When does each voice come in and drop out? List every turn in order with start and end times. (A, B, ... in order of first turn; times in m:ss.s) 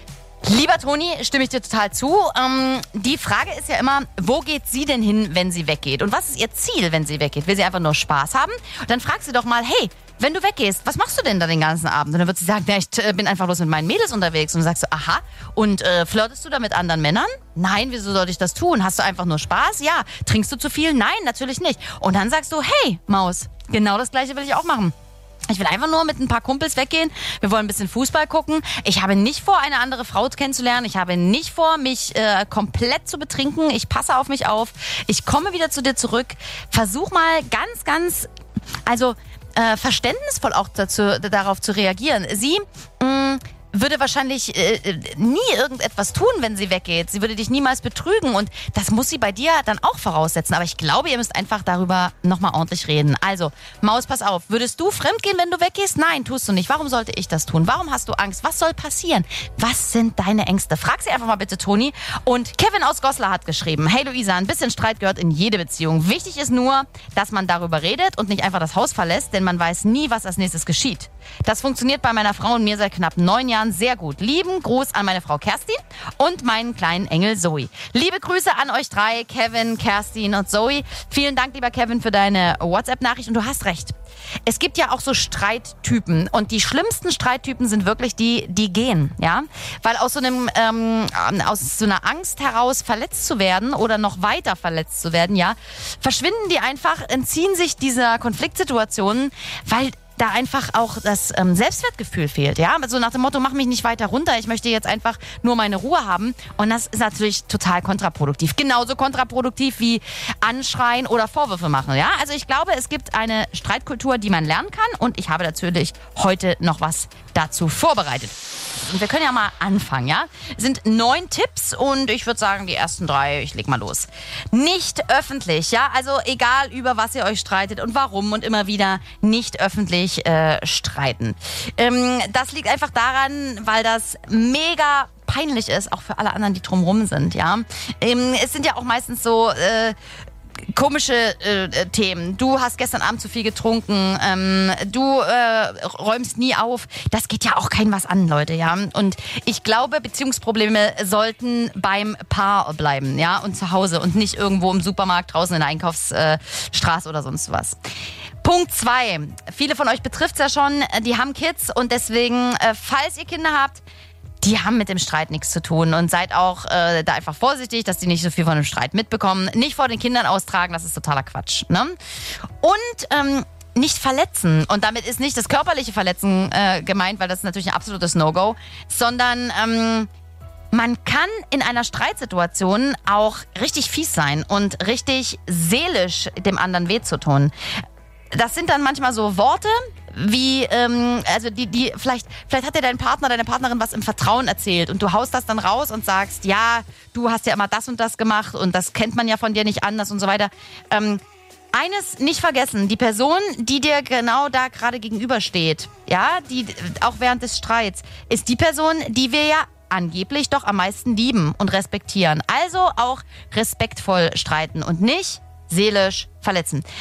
0:00.4-0:24.9 A
0:25.5-0:38.3 A
0:38.9-1:24.0 A
1:24.5-2:20.0 A
2:20.7-2:37.8 A
2:38.4-2:43.8 A
2:44.4-2:52.0 A
2:52.6-3:00.1 A
3:00.7-3:07.5 A
3:08.3-3:21.2 A
3:21.7-3:36.8 A